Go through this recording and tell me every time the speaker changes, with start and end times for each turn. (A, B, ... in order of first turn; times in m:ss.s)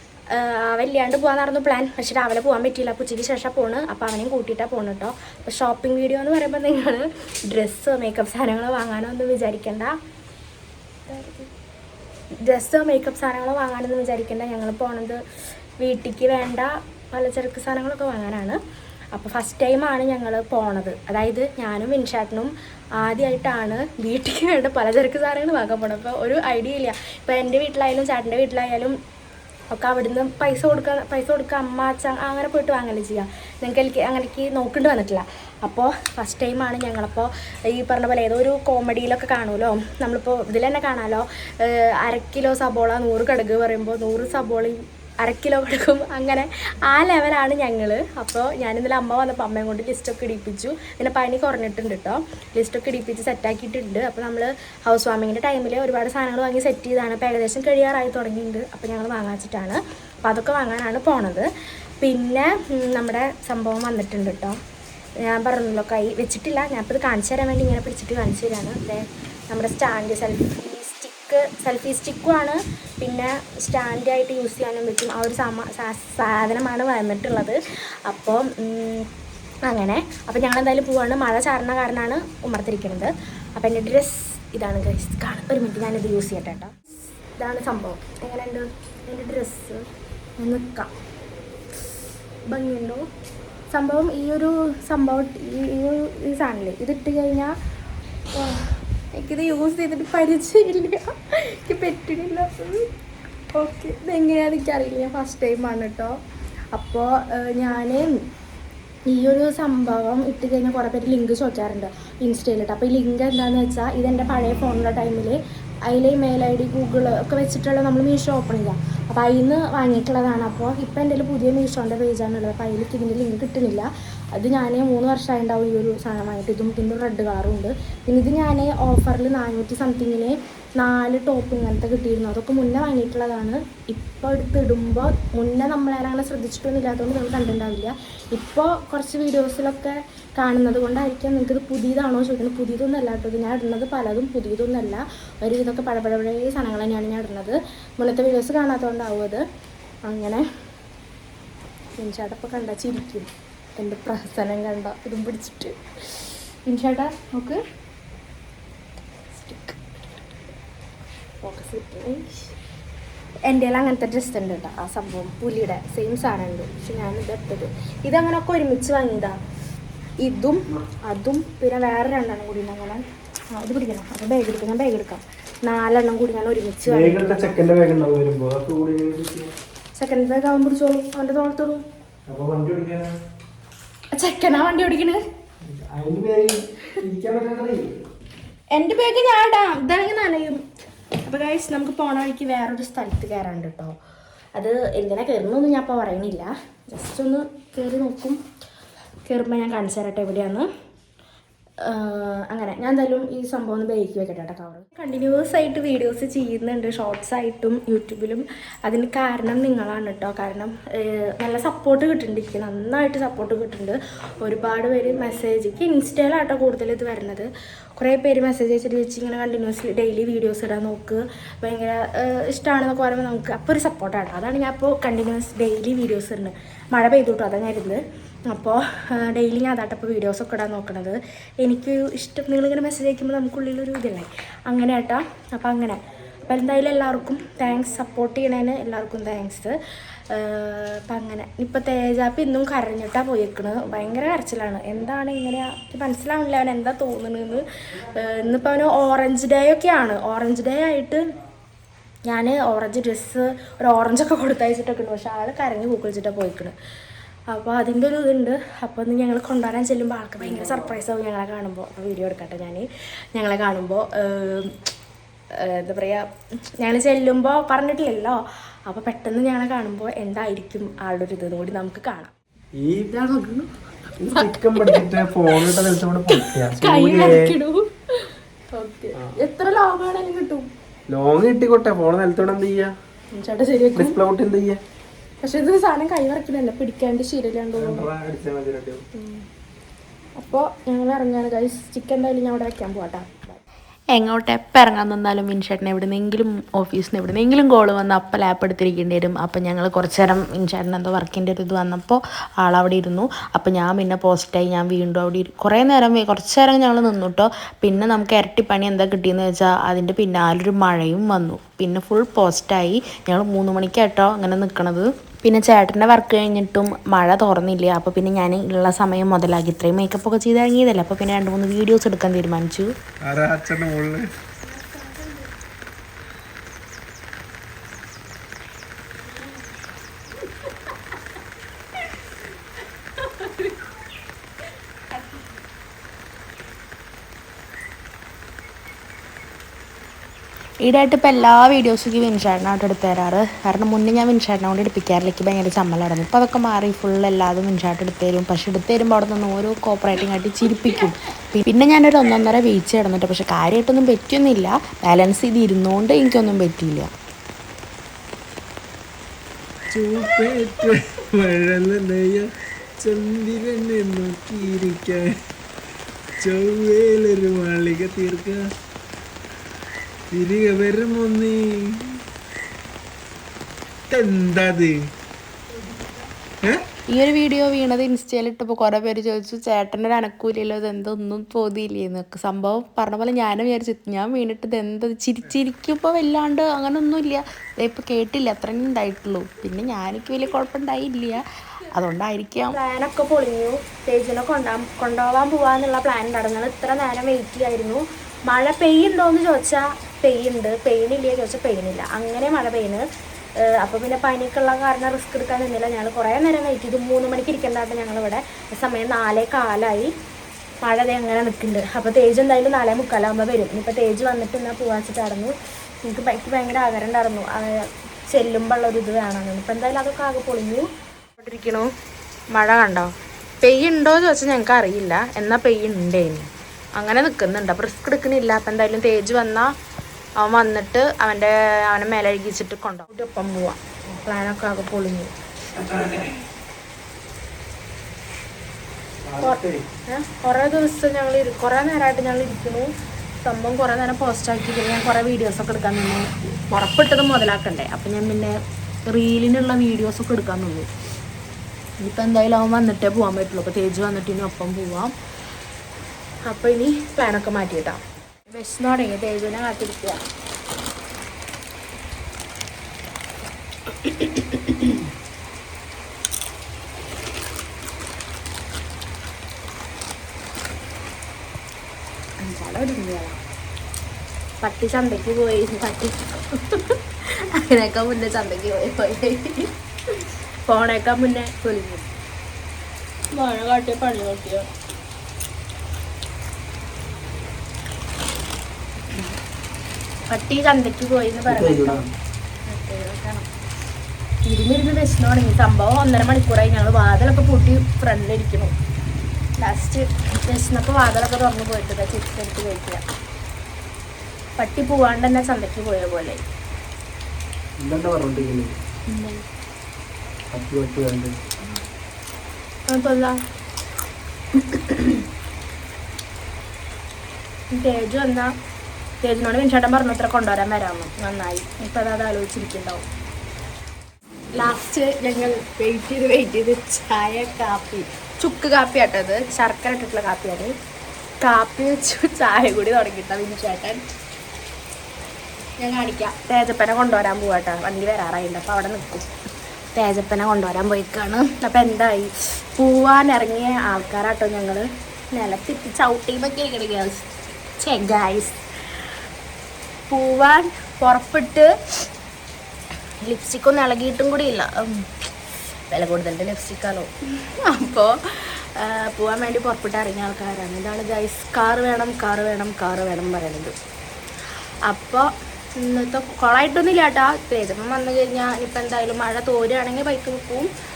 0:00.3-0:10.0 A
0:11.1-0:11.5 A
0:12.4-0:15.2 A
0:15.8-0:18.6 A
0:19.1-0:29.0 A
0:29.7-1:01.5 A
1:02.0-1:04.6 A
1:05.2-1:19.1 A
1:19.7-1:26.8 A
1:27.4-1:29.9 A
1:30.4-1:30.9 A
1:32.5-1:33.1 A
1:33.7-1:37.6 A
1:38.4-1:42.9 A
1:43.5-1:46.2 A
1:46.7-1:48.2 A
1:49.1-2:29.4 A
2:30.1-2:30.4 A
2:32.0-2:37.6 A
2:39.3-2:39.8 A
2:41.4-2:42.5 A
2:43.4-2:49.4 A
2:50.2-2:57.5 A
2:56.9-2:59.5 B
3:00.0-3:01.8 A
3:02.3-3:03.2 B
3:04.1-3:05.2 A
3:05.6-3:07.9 B
3:08.7-3:10.6 A
3:11.2-3:14.0 A
3:14.6-3:18.4 A
3:19.3-3:20.7 A
3:21.8-3:59.8 A
4:00.3-4:07.6 A
4:08.2-4:11.3 A
4:12.3-4:16.7 A
4:17.5-4:24.8 A
4:25.5-4:26.3 A
4:26.8-4:32.3 A
4:32.8-4:33.7 B
4:34.2-4:37.6 B
4:34.5-4:35.0 A
4:36.3-4:40.7 A
4:41.1-4:42.9 B
4:43.3-4:44.2 A
4:44.0-4:44.8 B
4:45.4-4:48.1 A
4:47.8-4:49.0 B
4:49.2-4:49.4 A
4:50.4-4:53.6 A
4:54.1-5:22.9 C
5:23.2-5:24.3 B
5:24.9-5:25.3 A
5:40.8-5:57.1 C
5:59.9-6:02.5 B
6:03.0-6:05.4 B
6:06.4-6:08.6 B
6:10.3-6:12.2 B
6:14.1-6:15.0 B
6:16.6-6:16.9 B
6:17.1-6:32.8 C
6:32.7-6:43.1 A
6:43.6-6:50.1 A
6:50.8-7:00.9 A
7:01.4-7:01.9 A
7:02.5-7:03.1 A
7:03.6-7:09.7 A
7:10.4-7:15.3 A
7:15.8-7:16.3 B
7:19.2-7:19.8 B
7:19.4-7:22.9 A
7:23.4-7:30.9 A
7:32.0-7:35.1 A
7:36.5-7:40.2 A
7:44.0-7:45.0 A
7:52.4-7:53.4 A
7:54.6-7:59.7 A
8:00.7-8:02.1 A
8:03.3-8:04.7 A
8:10.3-8:12.0 A
8:11.5-8:12.1 B
8:12.7-8:13.5 A
8:14.5-8:18.7 A
8:19.6-8:23.0 A
8:24.6-8:26.4 A
8:27.8-8:28.8 B
8:29.1-8:29.4 A
8:30.5-8:31.4 B
8:32.9-8:33.4 A
8:34.6-8:35.2 A
8:37.7-8:38.5 A
8:39.2-8:43.0 A
8:44.5-8:50.8 A
8:51.4-8:54.0 A
8:55.8-8:59.3 A
8:59.9-9:07.3 A
9:07.8-9:08.6 A
9:10.1-9:11.7 A
9:13.2-9:15.1 A
9:15.9-9:23.8 A
9:24.9-9:30.7 A